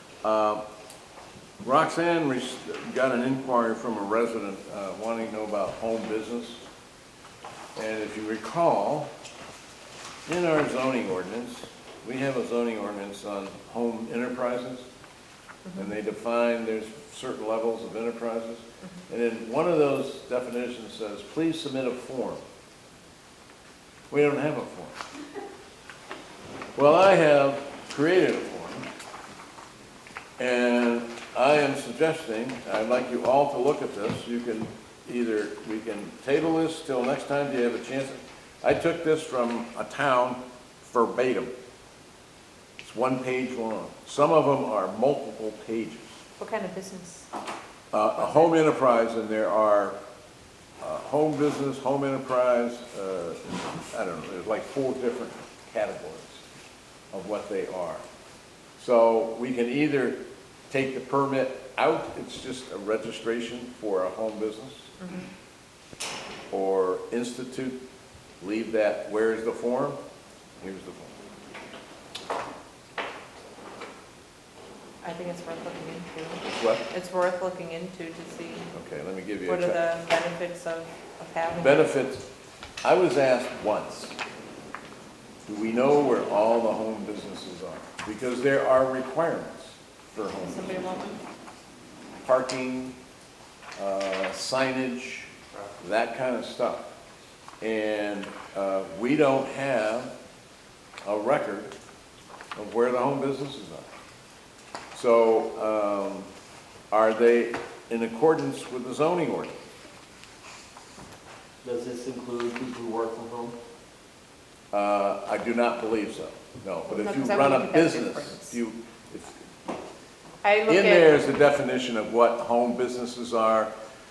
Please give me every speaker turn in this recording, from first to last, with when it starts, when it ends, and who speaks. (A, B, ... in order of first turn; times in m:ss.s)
0:00.2-0:00.6 A
0:01.6-0:06.6 A
0:07.8-0:09.1 A
0:10.3-0:14.9 A
0:15.7-0:15.9 B
0:15.8-0:22.4 A
0:24.1-0:25.0 A
0:26.8-0:28.9 A
0:30.4-0:41.5 A
0:42.8-0:46.1 A
0:46.4-0:47.3 B
0:47.9-0:50.0 A
0:48.2-0:48.5 B
0:50.8-0:56.4 A
0:57.1-0:58.0 A
0:58.8-1:00.2 A
1:00.7-1:04.9 A
1:05.0-1:05.3 B
1:06.5-1:07.8 A
1:08.4-1:10.0 A
1:10.6-1:11.2 A
1:15.0-1:18.7 B
1:16.5-1:16.8 A
1:18.7-1:19.8 A
1:19.5-1:21.9 B
1:21.6-1:22.2 A
1:22.8-1:24.2 A
1:25.5-1:30.9 A
1:30.4-1:31.2 B
1:32.2-1:33.0 A
1:33.8-1:36.9 A
1:37.6-1:40.1 A
1:41.0-1:41.7 A
1:42.6-1:43.9 A
1:44.9-1:46.3 A
1:46.9-1:49.6 A
1:51.6-1:53.6 C
1:54.7-1:59.4 A
1:56.9-1:58.6 B
2:00.4-2:01.2 B
2:00.7-2:03.7 A